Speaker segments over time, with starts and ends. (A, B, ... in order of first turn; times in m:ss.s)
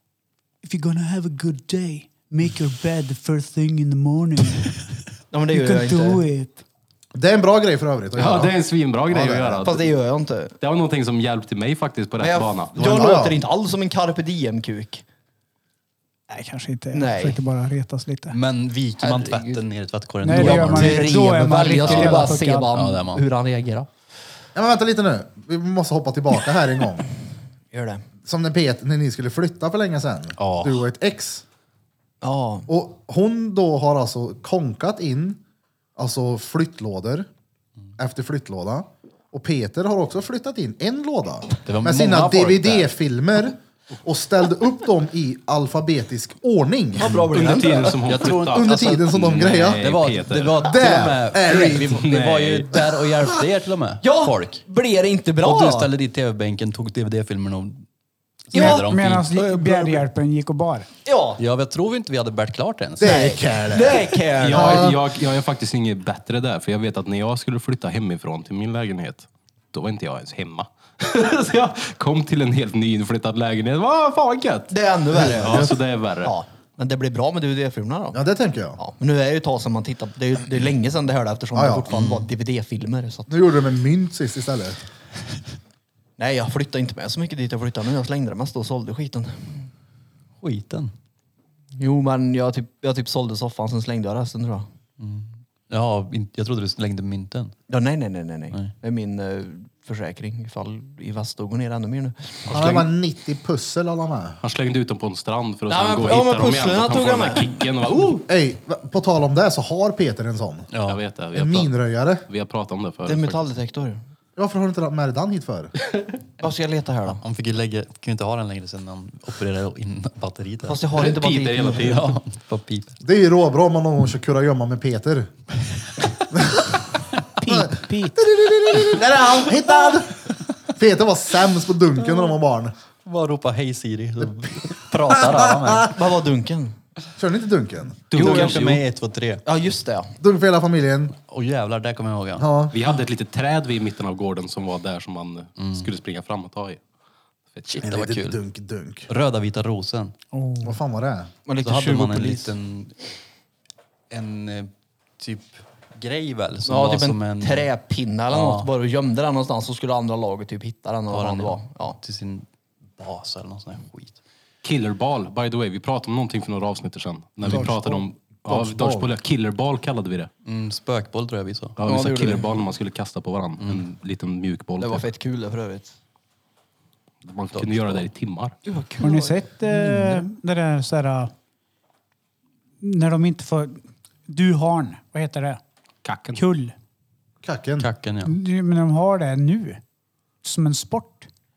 0:00.6-0:04.8 A
0:05.3-0:06.2 B
0:05.5-0:06.6 A
0:07.2-0:08.6 C
0:08.2-0:09.9 D
0:09.1-0:09.6 C
0:09.6-0:10.5 B
0:10.6-0:12.9 D
0:12.2-0:15.0 B
0:12.8-0:13.4 C
0:16.3-0:18.4 A
0:16.9-0:17.4 B
0:18.3-0:23.3 E
0:19.0-0:19.6 B
0:20.2-0:22.7 A
0:20.3-0:23.9 B
0:24.6-0:27.1 C
0:27.7-0:28.0 B
0:28.2-0:31.4 C
0:30.4-0:30.8 E
0:32.2-0:32.7 B
0:32.7-0:35.4 C
0:36.0-0:37.3 C
0:38.0-0:47.3 C
0:41.6-0:42.9 E
0:47.0-0:48.2 B
0:47.3-0:50.7 D
0:48.0-0:54.6 E
0:48.5-0:49.8 C
0:50.6-0:52.1 C
0:51.9-0:52.7 D
0:54.0-0:55.9 B
0:55.4-0:57.8 E
0:58.5-0:59.4 E
0:58.5-1:00.9 A
0:58.5-0:58.8 B
0:59.5-1:00.0 B
1:01.1-1:01.4 B
1:01.4-1:03.3 E
1:03.0-1:05.0 C
1:03.0-1:04.9 B
1:04.4-1:16.4 D
1:14.7-1:15.7 B
1:15.4-1:15.7 C
1:16.2-1:18.2 B
1:18.1-1:18.8 C
1:18.8-1:23.3 B
1:21.6-1:22.1 C
1:23.3-1:24.8 C
1:26.2-1:29.7 B
1:30.4-1:30.9 E
1:31.8-1:34.7 B
1:35.0-1:37.6 E
1:37.7-1:42.9 B
1:42.5-1:44.4 C
1:44.4-1:48.2 D
1:45.7-1:47.5 B
1:48.3-1:50.7 C
1:50.7-1:51.0 E
1:50.9-1:51.8 D
1:51.4-1:52.2 C
1:52.3-1:53.4 D
1:53.0-1:54.0 B
1:54.4-1:55.7 C
1:56.4-1:57.2 B
1:57.1-2:00.9 E
2:00.6-2:02.0 B
2:00.9-2:02.2 D
2:01.8-2:03.0 E
2:03.0-2:05.3 C
2:06.3-2:06.7 C
2:07.4-2:08.2 A
2:07.5-2:12.7 C
2:13.0-2:16.0 E
2:15.1-2:15.9 C
2:15.9-2:16.8 B
2:17.2-2:18.1 C
2:18.1-2:18.8 D
2:18.2-2:18.8 B
2:18.2-2:19.4 E
2:19.4-2:20.1 B
2:20.2-2:21.2 C
2:21.2-2:22.5 E
2:22.4-2:22.7 C
2:22.7-2:26.8 D
2:25.6-2:25.9 E
2:27.5-2:27.8 D
2:27.8-2:28.4 E
2:27.8-2:29.1 C
2:29.1-2:30.1 E
2:30.3-2:30.8 A
2:30.6-2:31.3 C
2:31.5-2:32.5 B
2:31.6-2:33.0 E
2:34.1-2:37.7 E
2:36.6-2:42.0 B
2:38.3-2:38.7 E
2:41.1-2:44.2 E
2:44.6-2:50.3 D
2:47.5-2:49.1 C
2:50.4-2:51.8 E
2:51.8-2:55.1 D
2:51.8-2:52.5 B
2:54.8-2:55.9 B
2:57.2-2:58.6 D
2:57.5-2:58.1 E
2:58.6-3:00.3 B
2:59.0-3:01.3 A
3:02.8-3:05.6 A
3:06.0-3:06.4 D
3:06.4-3:06.7 A
3:07.4-3:07.9 C
3:07.8-3:08.4 E
3:08.2-3:09.8 A
3:10.4-3:11.3 A